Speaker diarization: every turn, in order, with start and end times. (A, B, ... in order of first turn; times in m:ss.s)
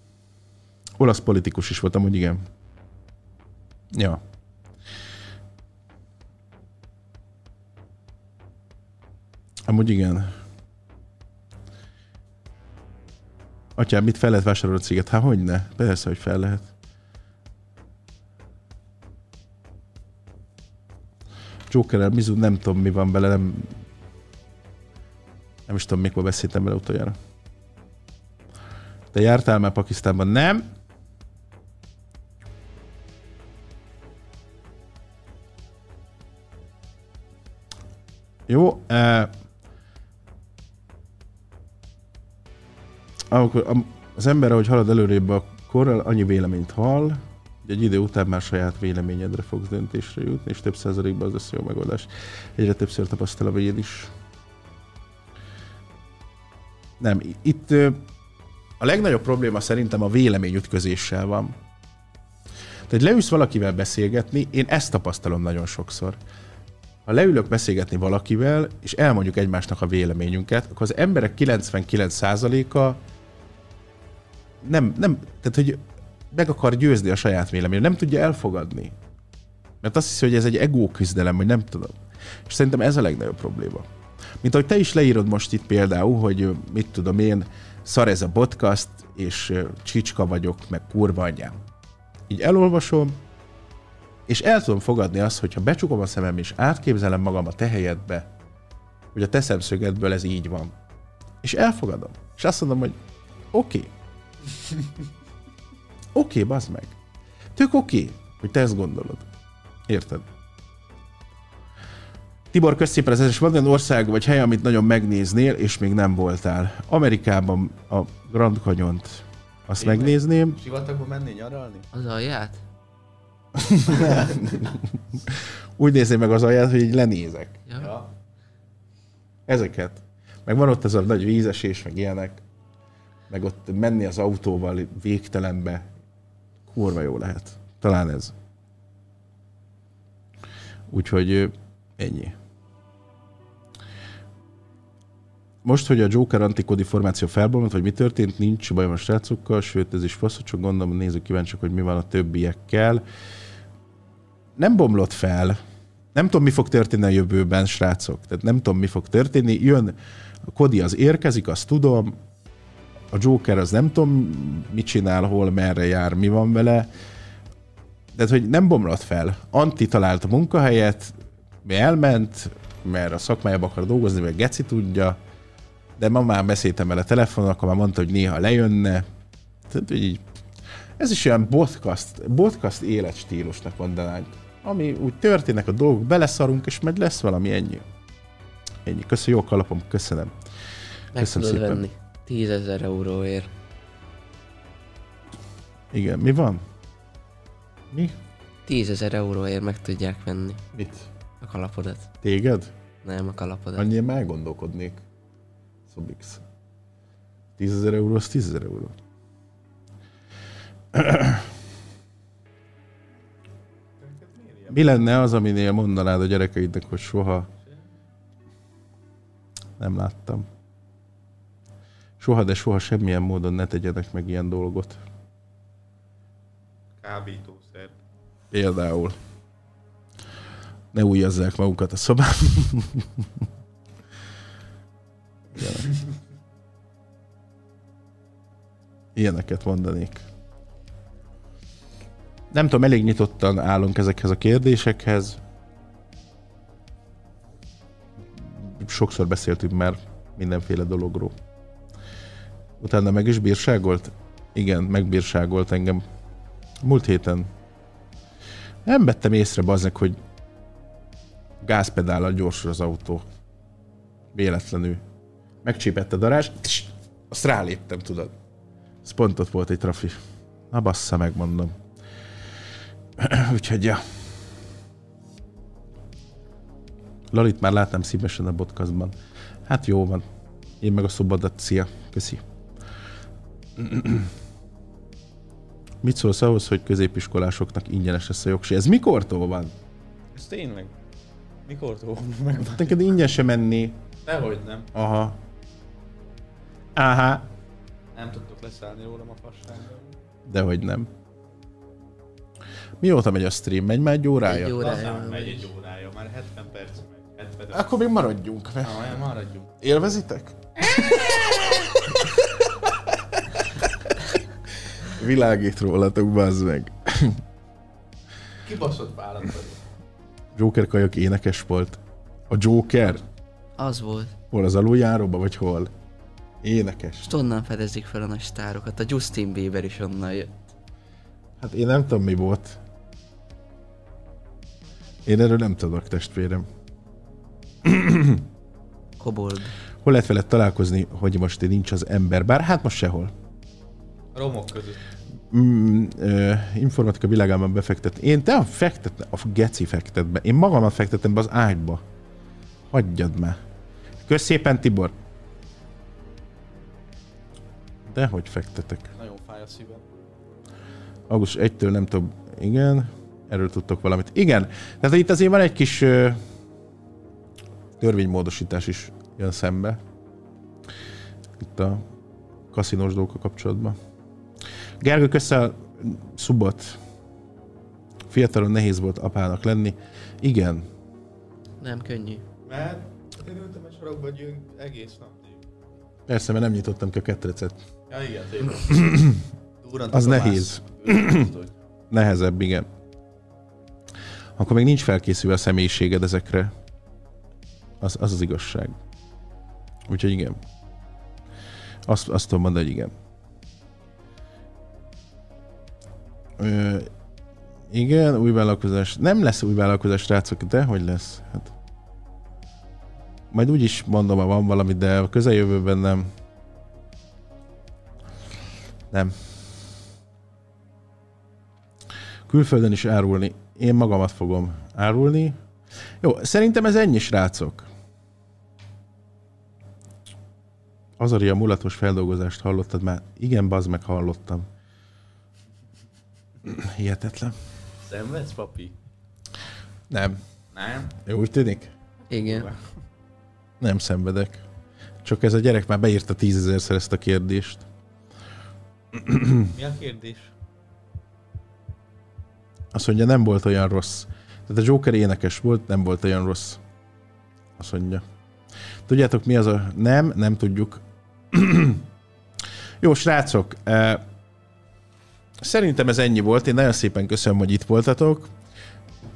0:01.0-0:02.4 A
0:03.9-0:04.2 A
0:09.7-0:10.3 A
0:13.8-0:16.7 A
0:21.7-0:23.8 A
0:25.7-0:27.2 A
0:29.1-0:30.6 A
0:38.5-0:39.3 A
0:43.3-0:54.1 A
0:57.0-0:58.0 A
0:58.8-1:01.5 A
1:02.9-1:06.2 A
1:07.0-1:13.0 A
1:14.6-1:15.8 A
1:16.3-1:18.9 A
1:19.8-1:23.8 A
1:24.4-1:31.6 A
1:32.3-1:33.2 A
1:34.3-1:38.3 A
1:39.1-1:40.7 A
1:41.4-1:43.0 A
1:43.5-1:43.9 A
1:46.1-1:47.0 A
1:47.6-1:49.3 A
1:49.9-1:50.2 A
1:52.5-2:00.6 A
1:59.8-2:01.9 B
2:01.9-2:02.6 C
2:03.5-2:07.6 A
2:07.7-2:07.9 C
2:07.8-2:08.1 B
2:09.5-2:12.4 A
2:13.3-2:15.8 A
2:16.7-2:18.3 A
2:20.9-2:22.3 A
2:25.6-2:33.0 A
2:34.6-2:35.6 A
2:36.1-2:39.9 A
2:40.5-2:42.2 A
2:43.1-2:46.9 A
2:48.1-2:55.2 A
2:56.0-2:59.0 A
2:59.7-3:00.2 A
3:01.0-3:07.8 A
3:08.8-3:10.3 A
3:11.1-3:11.8 A
3:11.1-3:13.5 C
3:15.9-3:16.6 A
3:17.9-3:18.2 A
3:18.6-3:20.6 C
3:20.7-3:21.1 A
3:21.4-3:22.1 C
3:22.2-3:22.7 A
3:23.0-3:23.9 C
3:23.8-3:25.0 A
3:25.9-3:26.4 A
3:27.6-3:28.9 A
3:30.9-3:31.5 A
3:34.0-3:34.8 B
3:34.7-3:37.5 A
3:39.8-3:40.5 A
3:42.2-3:45.0 A
3:47.0-3:48.0 B
3:48.5-3:49.2 A
3:50.9-3:53.3 A
3:55.5-3:55.9 A
3:59.2-4:00.2 A
4:02.5-4:05.4 A
4:08.4-4:11.4 A
4:12.8-4:16.0 A
4:16.8-4:17.5 A
4:18.8-4:20.2 A
4:21.6-4:23.2 A
4:24.3-4:25.0 A
4:25.6-4:28.3 A
4:29.0-4:30.2 A
4:30.7-4:31.7 A
4:33.2-4:34.0 A
4:37.3-4:39.1 A
4:39.7-4:40.2 A
4:40.8-4:42.4 A
4:43.8-4:44.3 A
4:46.0-4:49.7 A
4:50.3-4:50.9 B
4:51.6-4:53.2 B
4:52.6-4:54.0 A
4:54.2-4:54.9 B
4:54.9-4:55.4 A
4:57.0-4:57.4 A
4:58.1-5:00.1 B
5:00.5-5:01.1 A
5:03.0-5:04.8 A
5:04.4-5:05.7 C
5:04.6-5:07.9 B
5:07.7-5:09.1 A
5:08.8-5:09.7 B
5:09.8-5:12.5 A
5:14.9-5:17.4 A
5:18.6-5:19.8 B
5:20.5-5:22.0 A
5:22.5-5:23.2 A
5:23.8-5:24.3 C
5:24.5-5:25.9 A
5:26.6-5:27.3 A
5:27.2-5:30.5 C
5:31.6-5:32.8 A
5:35.2-5:36.7 A
5:37.8-5:38.4 A
5:39.2-5:39.7 C
5:40.0-5:43.3 A
5:44.3-5:45.0 B
5:45.5-5:52.0 A
5:52.9-5:53.6 A
5:54.2-5:55.1 A
5:58.1-5:59.1 A
5:59.2-6:00.1 B
6:01.3-6:06.4 A
6:08.0-6:10.0 A
6:11.6-6:12.0 A
6:12.7-6:14.0 A
6:15.0-6:17.0 A
6:18.3-6:20.8 A
6:21.8-6:22.4 C
6:22.7-6:25.6 B
6:26.3-6:27.8 A
6:28.1-6:29.2 B
6:28.9-6:29.4 A
6:29.8-6:31.7 B
6:30.1-6:31.5 A
6:32.1-6:32.9 A
6:34.6-6:36.7 A
6:38.0-6:39.0 A
6:40.1-6:40.6 A
6:42.1-6:43.1 A
6:46.6-6:47.1 A
6:47.9-6:51.7 A
6:53.5-6:56.3 A
6:59.1-6:59.4 A
7:02.5-7:05.6 A
7:06.2-7:07.9 A
7:11.2-7:14.7 A
7:16.6-7:17.6 A
7:18.0-7:19.0 B
7:20.1-7:20.4 A
7:20.7-7:21.1 B
7:21.2-7:21.9 A
7:22.3-7:22.7 C
7:22.3-7:22.8 B
7:23.8-7:24.6 A
7:25.2-7:27.8 A
7:29.1-7:29.7 A
7:29.7-7:30.5 B
7:32.9-7:36.8 A
7:37.8-7:38.2 A
7:39.1-7:42.0 A
7:43.0-7:44.2 A
7:45.6-7:48.5 A